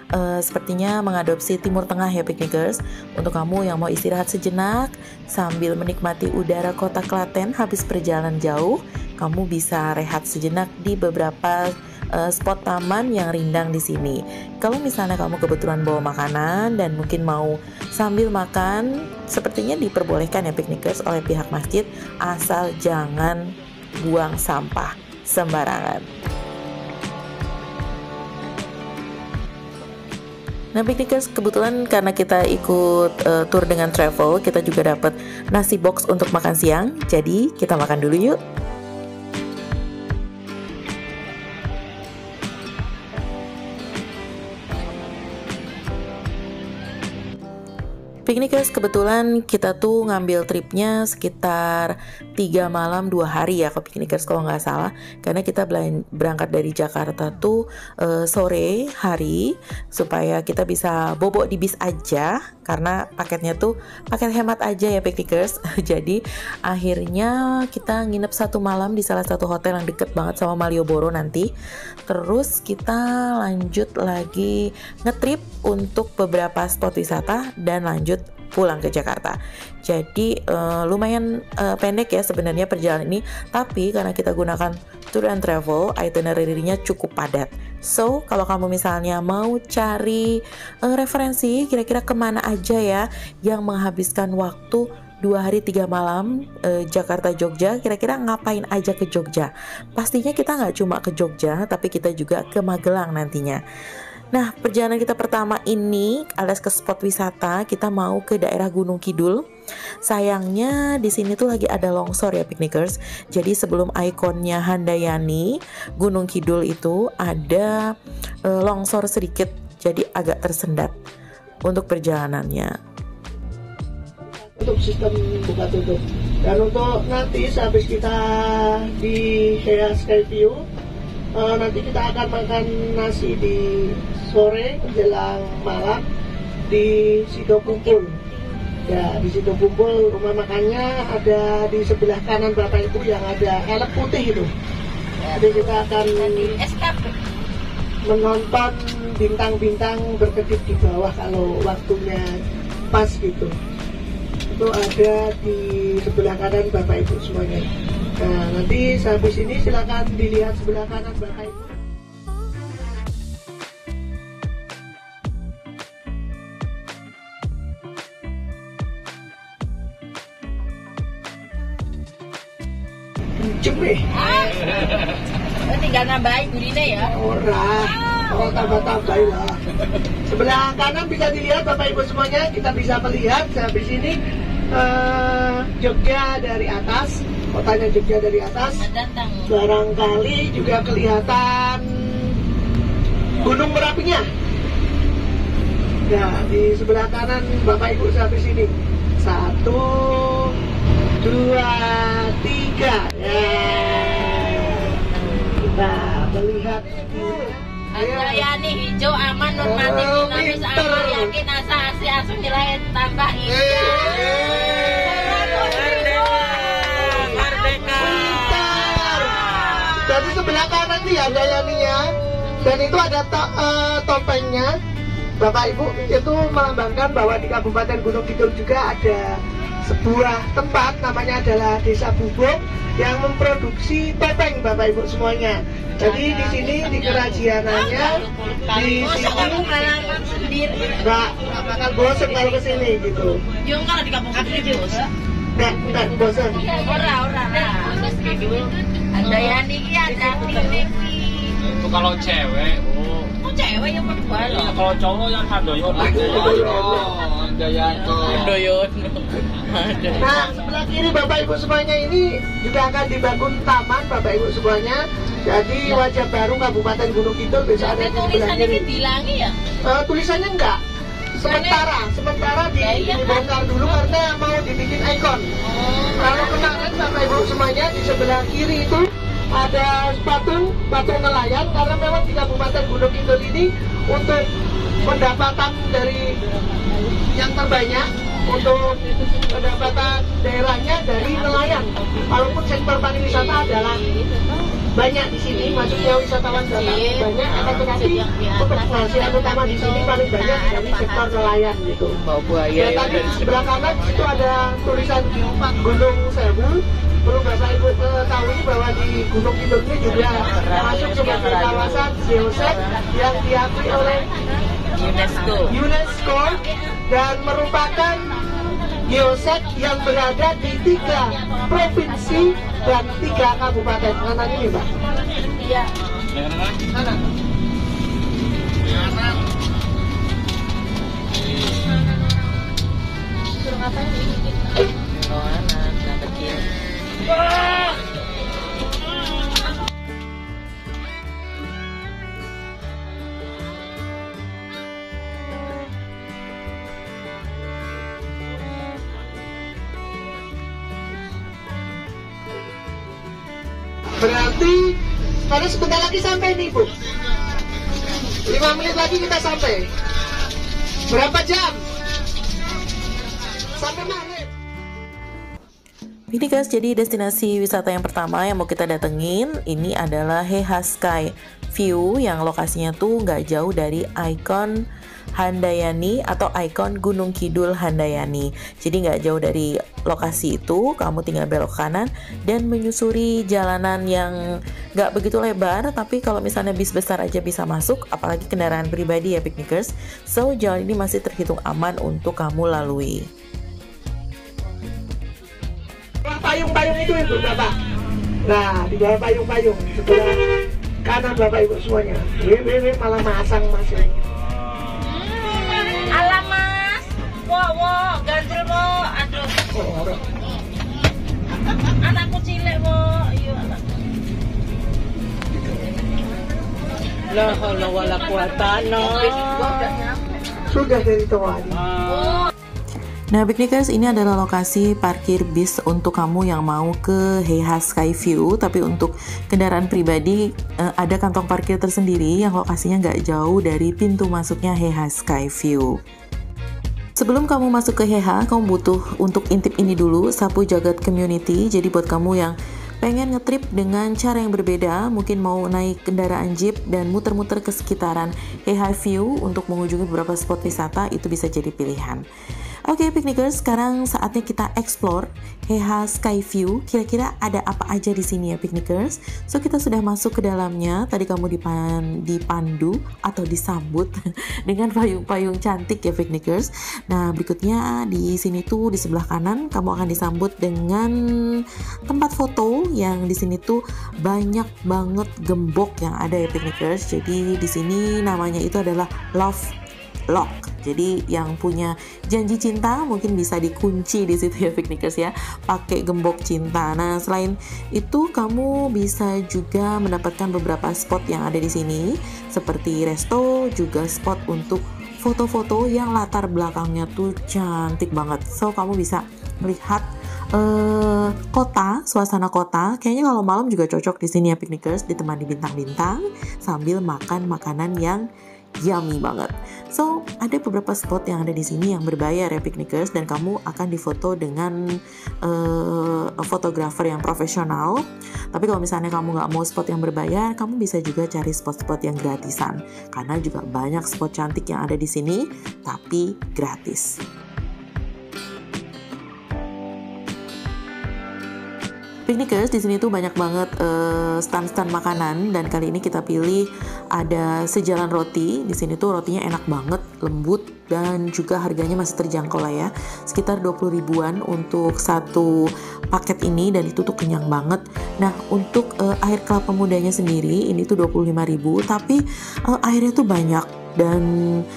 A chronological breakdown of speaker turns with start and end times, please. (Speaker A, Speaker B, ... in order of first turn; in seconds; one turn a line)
Speaker A: 0.1-26.1
Speaker A: 30.7-38.4
Speaker A: 48.2-71.5
Speaker A: 72.1-103.6
Speaker A: 104.3-109.4
Speaker A: 110.0-117.8
Speaker A: 118.5-120.9
Speaker A: 121.6-122.7
Speaker B: 124.2-130.6
Speaker B: 131.3-136.0
Speaker B: 136.7-138.2
Speaker B: 138.8-144.5
Speaker C: 145.2-147.1
Speaker B: 145.3-146.6
Speaker B: 148.0-152.4
Speaker B: 152.9-153.5
Speaker B: 154.5-157.7
Speaker B: 158.2-161.7
Speaker B: 173.4-174.0
Speaker C: 174.1-177.1
Speaker B: 177.0-179.6
Speaker C: 178.1-178.3
Speaker B: 180.3-184.2
Speaker B: 184.7-188.8
Speaker C: 188.8-189.5
Speaker B: 189.5-192.3
Speaker B: 193.4-194.2
Speaker B: 196.1-200.5
Speaker B: 201.2-205.0
Speaker B: 205.6-208.4
Speaker C: 207.9-217.9
Speaker B: 209.6-211.3
Speaker B: 213.4-215.6
Speaker B: 216.6-217.2
Speaker B: 217.9-222.1
Speaker C: 219.6-219.9
Speaker B: 222.6-224.7
Speaker B: 225.4-229.3
Speaker B: 229.8-239.8
Speaker C: 238.4-241.0
Speaker B: 241.0-243.4
Speaker C: 243.6-245.1
Speaker B: 245.5-246.7
Speaker C: 246.5-251.8
Speaker D: 251.8-253.3
Speaker C: 253.4-254.9
Speaker D: 254.8-256.3
Speaker B: 255.9-257.2
Speaker D: 257.5-258.4
Speaker C: 257.9-258.6
Speaker B: 260.1-268.9
Speaker C: 267.8-269.6
Speaker B: 269.8-270.8
Speaker B: 271.3-275.4
Speaker C: 271.5-271.8
Speaker C: 272.8-273.5
Speaker C: 275.6-276.7
Speaker B: 276.1-284.4
Speaker B: 285.0-286.2
Speaker B: 287.3-294.0
Speaker C: 291.8-292.3
Speaker C: 293.3-294.6
Speaker B: 294.9-302.2
Speaker C: 295.5-295.9
Speaker C: 296.7-301.4
Speaker A: 302.3-302.6
Speaker B: 302.7-314.3
Speaker C: 310.5-311.3
Speaker C: 314.9-315.7
Speaker B: 315.7-318.3
Speaker C: 316.5-317.0
Speaker B: 319.1-324.9
Speaker C: 325.4-325.9
Speaker B: 326.9-327.2
Speaker A: 335.2-336.7
Speaker B: 354.2-355.0
Speaker B: 355.5-356.9
Speaker B: 358.4-359.8
Speaker B: 361.1-361.8
Speaker B: 363.8-364.5
Speaker A: 366.3-374.8
Speaker A: 375.3-384.4
Speaker A: 384.9-393.3
Speaker B: 396.2-397.7
Speaker B: 398.4-400.4
Speaker B: 401.0-404.1
Speaker C: 405.2-409.6
Speaker B: 409.7-410.2
Speaker C: 412.0-414.0
Speaker C: 417.3-420.5
Speaker B: 420.7-421.9
Speaker C: 422.1-422.5
Speaker A: 423.3-436.0
Speaker A: 437.2-452.2
Speaker A: 452.9-464.1
Speaker A: 464.6-479.7
Speaker A: 480.3-508.3
Speaker A: 508.8-514.8
Speaker A: 515.4-527.2
Speaker A: 532.3-554.3